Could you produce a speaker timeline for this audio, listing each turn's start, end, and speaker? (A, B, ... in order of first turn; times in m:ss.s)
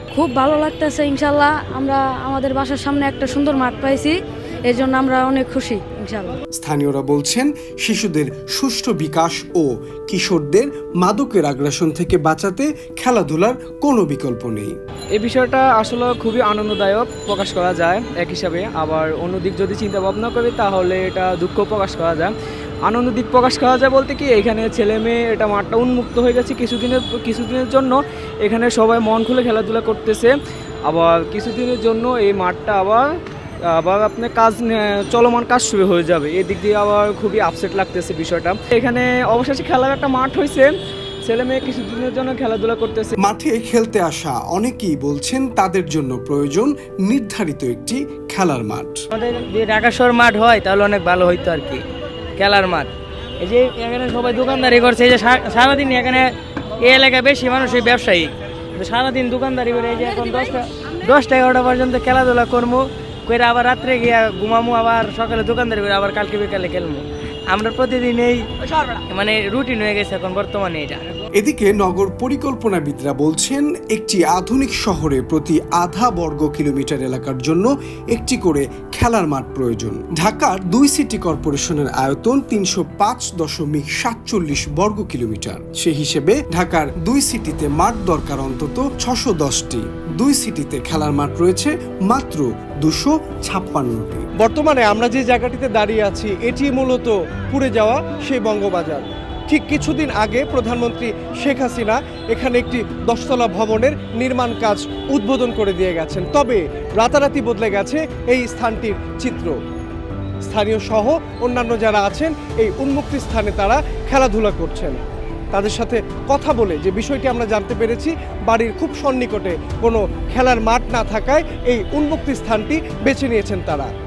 0:00.1-0:06.3 A
0:06.5-0:14.7 B
0:15.2-0:22.3 C
0:22.8-0:30.3 C
0:30.9-0:33.0 C
0:33.7-0:40.7 C
0:41.2-0:43.1 C
0:43.2-0:49.0 B
0:49.1-0:51.8 D
0:52.4-0:52.9 D
0:53.4-0:56.3 D
0:56.8-1:08.5 D
1:09.1-1:11.1 D
1:11.3-1:34.3 B
1:34.4-1:49.6 E
1:50.4-1:55.0 E
1:55.5-2:03.9 E